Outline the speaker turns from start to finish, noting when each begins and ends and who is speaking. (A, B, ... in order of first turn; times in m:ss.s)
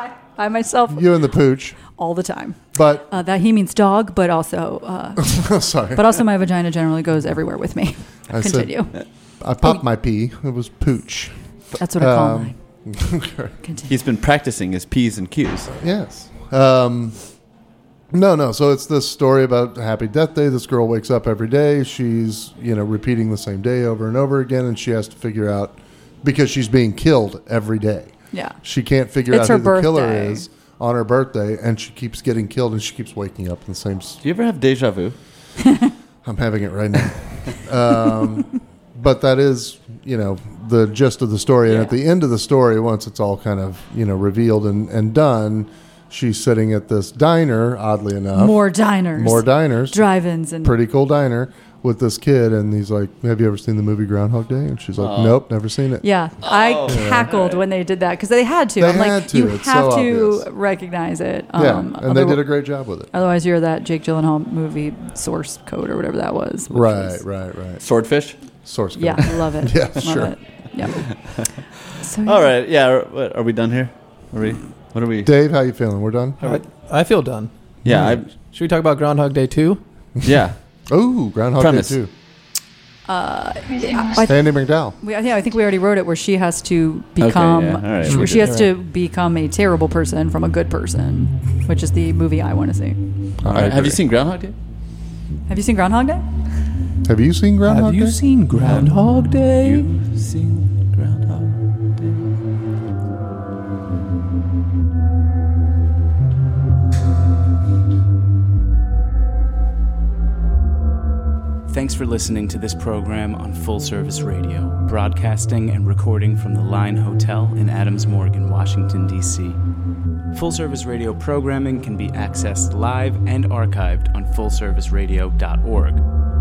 0:00.2-0:09.0 A
0:00.9-0:01.8 B
0:02.7-0:03.1 B
0:05.2-0:06.1 B
0:08.3-0:11.3 B
0:11.8-0:12.6 A
0:12.0-0:13.6 B
0:13.6-0:13.9 A
0:13.9-0:15.7 C
0:15.7-0:17.2 B
0:18.1-0:34.2 B
0:28.3-0:28.6 A
0:29.3-0:30.4 A
0:34.2-0:35.2 C
0:35.7-0:35.9 A
0:36.2-0:50.1 B
0:48.3-0:50.8 A
0:50.6-0:56.1 B
0:55.0-0:55.4 C
0:56.0-1:07.2 A
0:56.4-0:57.6 C
0:56.9-0:57.3 B
0:58.8-1:00.5 B
1:01.6-1:03.1 B
1:06.7-1:07.8 B
1:07.8-1:08.4 C
1:08.6-1:10.4 B
1:09.0-1:11.2 A
1:10.9-1:15.3 C
1:12.0-1:12.5 A
1:15.2-1:16.4 B
1:16.4-1:19.8 D
1:17.8-1:18.3 C
1:17.9-1:18.1 B
1:20.2-1:20.6 C
1:20.9-1:22.1 B
1:21.6-1:22.0 C
1:23.1-1:33.0 A
1:24.2-1:25.0 B
1:27.2-1:28.6 C
1:28.1-1:28.8 D
1:33.4-1:34.0 B
1:33.4-1:34.6 C
1:35.5-1:36.2 A
1:37.0-1:38.2 B
1:37.6-1:39.9 D
1:38.6-1:38.9 C
1:39.6-1:42.3 C
1:51.7-1:59.6 E
2:00.3-2:06.0 E